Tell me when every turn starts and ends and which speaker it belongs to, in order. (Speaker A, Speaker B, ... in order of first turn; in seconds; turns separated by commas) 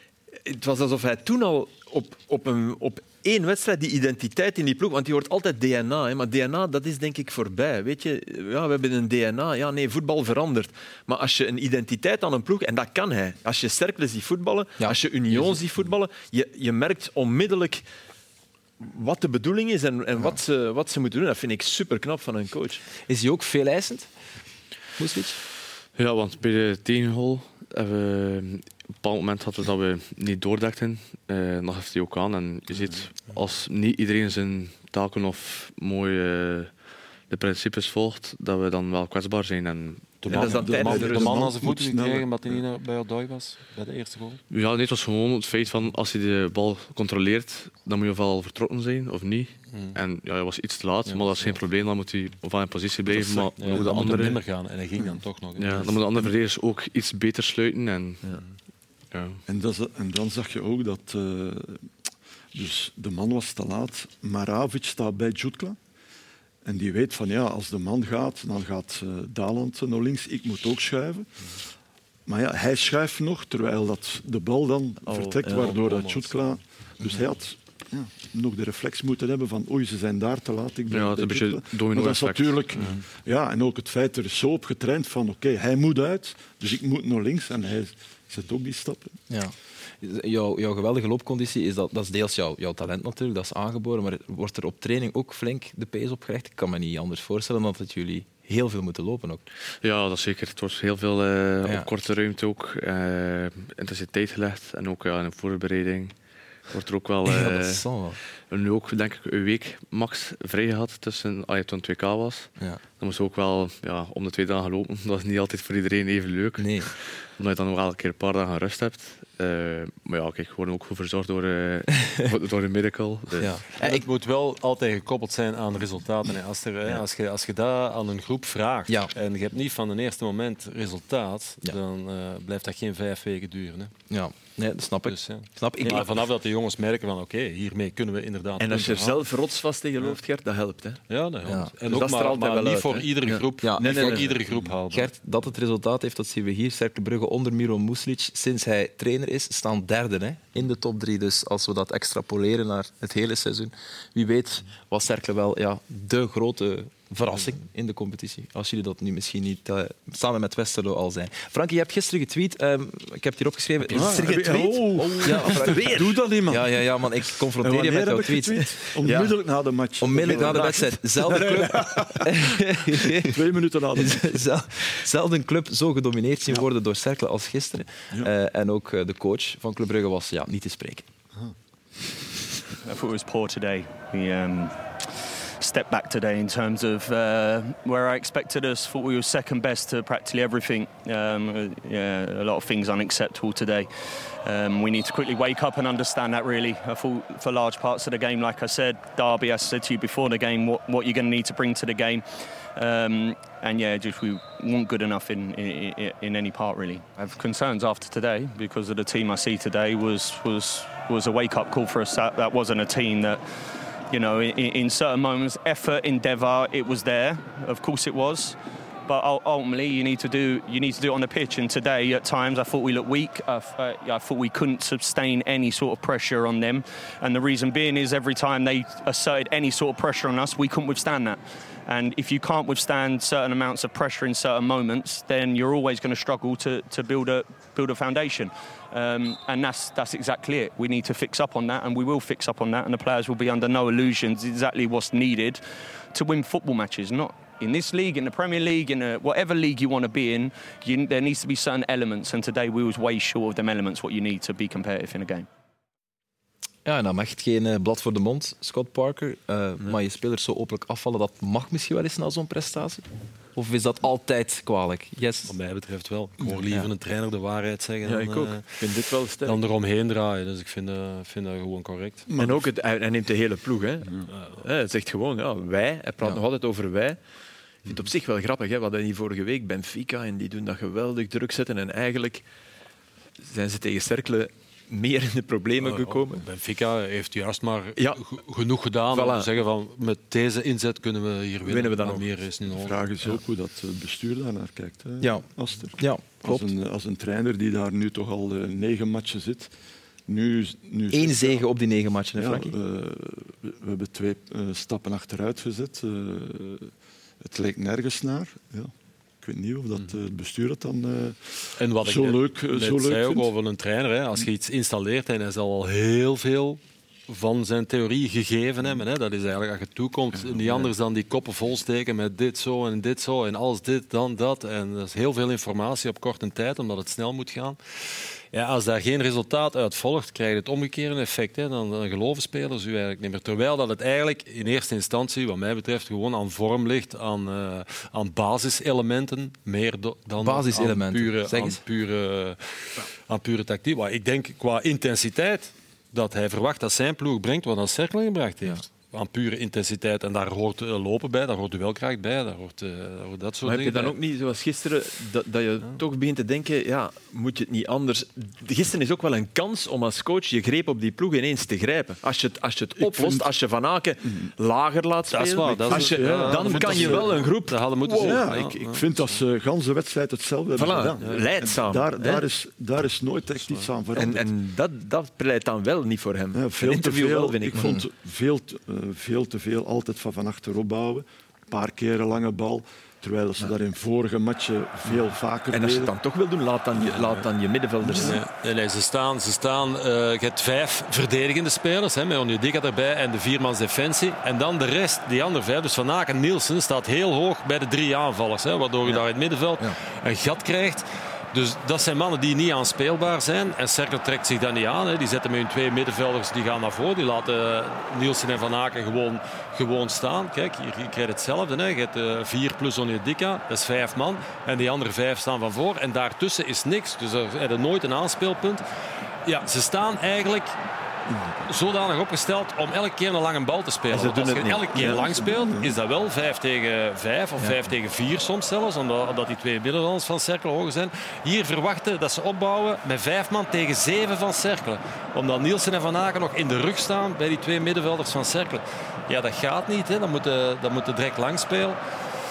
Speaker A: 0.4-17.9, Speaker B: 14.8-15.6, Speaker A: 18.8-22.8, Speaker B: 23.1-24.1, Speaker B: 25.0-25.4, Speaker C: 25.9-40.3, Speaker D: 32.7-33.1, Speaker E: 40.2-44.4, Speaker D: 40.3-42.6, Speaker A: 40.3-41.5, Speaker C: 44.5-54.5, Speaker E: 49.7-50.0, Speaker E: 51.1-51.6, Speaker E: 53.1-56.0, Speaker C: 55.6-58.4, Speaker C: 59.1-59.4, Speaker D: 59.5-62.0, Speaker D: 62.5-65.8, Speaker D: 66.6-71.7, Speaker D: 72.3-89.2, Speaker A: 75.0-75.7, Speaker E: 75.4-76.6, Speaker C: 80.9-82.7, Speaker E: 82.8-83.0, Speaker B: 89.3-99.4, Speaker C: 99.8-123.7, Speaker B: 107.2-108.2, Speaker B: 112.6-112.8, Speaker B: 116.6-117.0, Speaker B: 123.4-124.1, Speaker E: 123.6-133.9, Speaker B: 134.1-136.2, Speaker E: 135.1-139.2, Speaker A: 138.6-141.0, Speaker E: 141.1-145.1, Speaker B: 141.4-141.7, Speaker A: 141.9-144.3, Speaker B: 143.6-168.8, Speaker D: 163.9-172.5, Speaker A: 164.1-164.6, Speaker A: 165.2-166.2, Speaker A: 168.5-169.3, Speaker B: 170.0-173.4, Speaker A: 170.2-171.0, Speaker D: 173.2-174.4, Speaker B: 173.9-181.1, Speaker D: 181.3-182.2, Speaker F: 182.8-213.4, Speaker F: 214.1-255.5, Speaker B: 256.9-265.6, Speaker E: 265.5-268.8, Speaker A: 268.0-269.6, Speaker E: 269.4-272.3, Speaker D: 272.3-272.6, Speaker A: 272.4-277.2, Speaker E: 274.3-274.7, Speaker A: 277.8-282.5, Speaker A: 283.4-286.4, Speaker E: 285.8-293.3, Speaker A: 289.1-289.5, Speaker A: 291.6-292.3, Speaker D: 292.7-299.7, Speaker B: 295.2-296.7, Speaker D: 300.3-301.7, Speaker B: 301.1-302.8, Speaker D: 302.4-313.5, Speaker E: 311.8-327.8, Speaker D: 320.3-320.9, Speaker E: 328.5-354.2, Speaker B: 340.4-341.8, Speaker A: 353.6-368.4, Speaker D: 363.0-363.5, Speaker D: 364.2-364.5, Speaker E: 365.3-369.4, Speaker D: 365.9-367.5, Speaker D: 368.0-374.5, Speaker A: 370.7-372.4, Speaker E: 371.2-371.4, Speaker A: 374.1-378.0, Speaker D: 376.5-386.1, Speaker A: 385.7-388.4, Speaker E: 387.0-387.5, Speaker D: 388.0-388.4, Speaker E: 388.1-418.8, Speaker E: 419.4-420.7, Speaker D: 421.3-421.7, Speaker E: 421.7-442.0, Speaker A: 424.1-425.3, Speaker D: 425.0-426.0